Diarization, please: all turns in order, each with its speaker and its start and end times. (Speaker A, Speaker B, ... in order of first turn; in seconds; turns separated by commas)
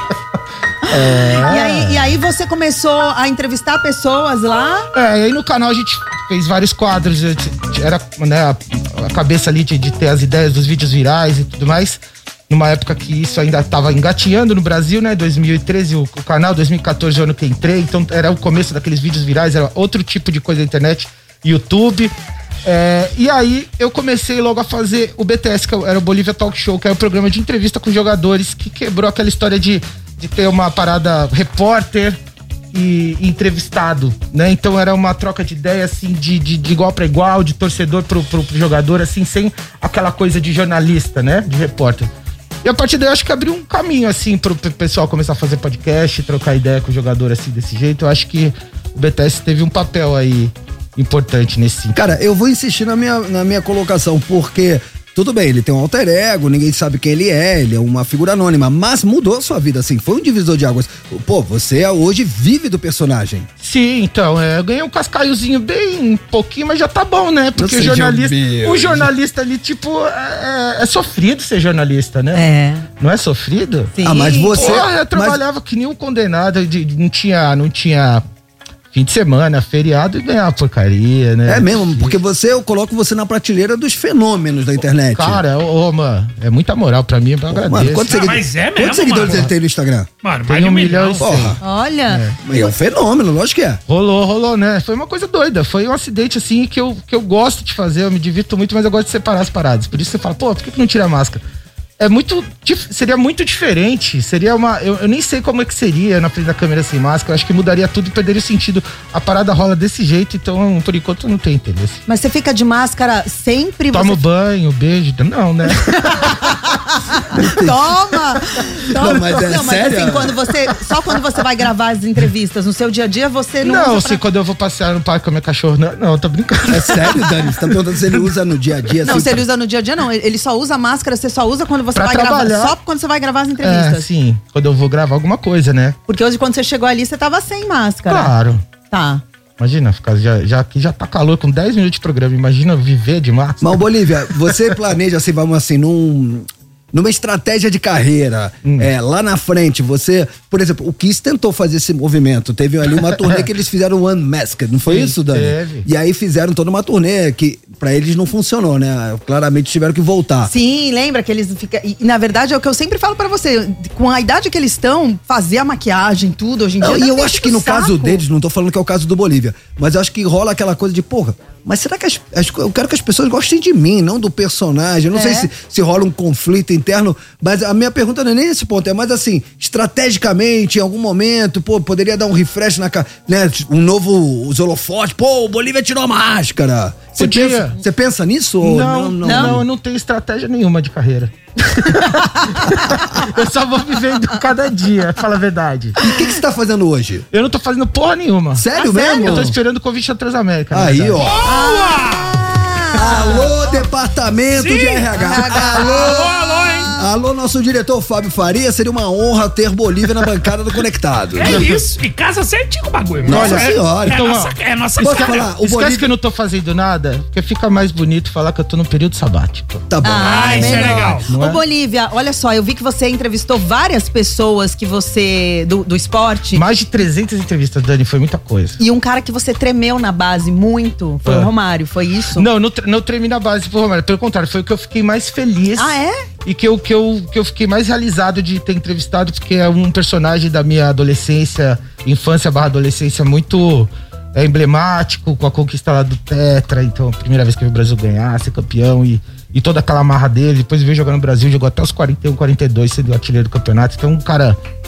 Speaker A: 0.9-2.0, Speaker B: 0.9-4.9, Speaker A: 4.9-32.2, Speaker A: 32.7-42.1, Speaker A: 42.6-52.0, Speaker C: 51.9-63.5, Speaker A: 63.6-72.4, Speaker C: 67.5-69.1, Speaker B: 72.3-72.8, Speaker A: 73.0-73.9, Speaker B: 73.9-74.8, Speaker C: 74.0-75.4, Speaker A: 74.5-78.2, Speaker A: 78.9-82.2, Speaker C: 81.5-85.4, Speaker A: 85.1-88.2, Speaker C: 87.5-90.1, Speaker D: 88.0-89.5, Speaker D: 90.2-91.3, Speaker A: 90.5-91.6, Speaker C: 91.2-91.6, Speaker B: 91.6-92.6, Speaker A: 92.1-92.4, Speaker C: 92.4-93.8, Speaker A: 93.9-101.4, Speaker A: 102.0-112.0, Speaker B: 112.1-114.2, Speaker A: 113.9-116.5, Speaker B: 115.9-124.2, Speaker C: 117.3-117.9, Speaker C: 118.9-120.3, Speaker A: 119.0-119.6, Speaker A: 123.6-127.6, Speaker C: 126.7-129.4, Speaker B: 129.0-134.1, Speaker A: 131.9-132.8, Speaker A: 133.6-136.0, Speaker B: 136.1-138.3, Speaker A: 138.1-138.6, Speaker B: 138.9-139.2, Speaker A: 139.6-144.6, Speaker C: 143.6-160.5, Speaker A: 148.6-148.9, Speaker A: 153.1-153.4, Speaker A: 154.8-155.8, Speaker B: 160.5-168.2, Speaker C: 166.8-189.7, Speaker B: 175.1-175.5, Speaker A: 187.2-187.8, Speaker A: 188.6-196.0, Speaker B: 189.2-189.6, Speaker B: 191.8-192.9, Speaker C: 196.0-197.3, Speaker A: 197.3-201.3, Speaker C: 198.5-199.6, Speaker B: 198.7-199.5, Speaker C: 200.7-201.4, Speaker D: 201.2-202.3, Speaker B: 201.4-203.8, Speaker C: 202.9-206.3, Speaker D: 204.5-206.9, Speaker B: 205.2-207.1, Speaker C: 207.0-211.7, Speaker D: 211.3-215.5, Speaker A: 211.4-211.8, Speaker C: 213.2-214.2, Speaker A: 213.3-219.8, Speaker C: 215.0-216.1, Speaker C: 219.9-221.4, Speaker B: 220.0-226.6, Speaker D: 220.2-221.2, Speaker A: 220.6-221.6, Speaker A: 226.5-228.8, Speaker B: 228.8-232.5, Speaker A: 231.2-231.5, Speaker A: 232.3-235.9, Speaker B: 235.8-236.2, Speaker A: 236.4-254.6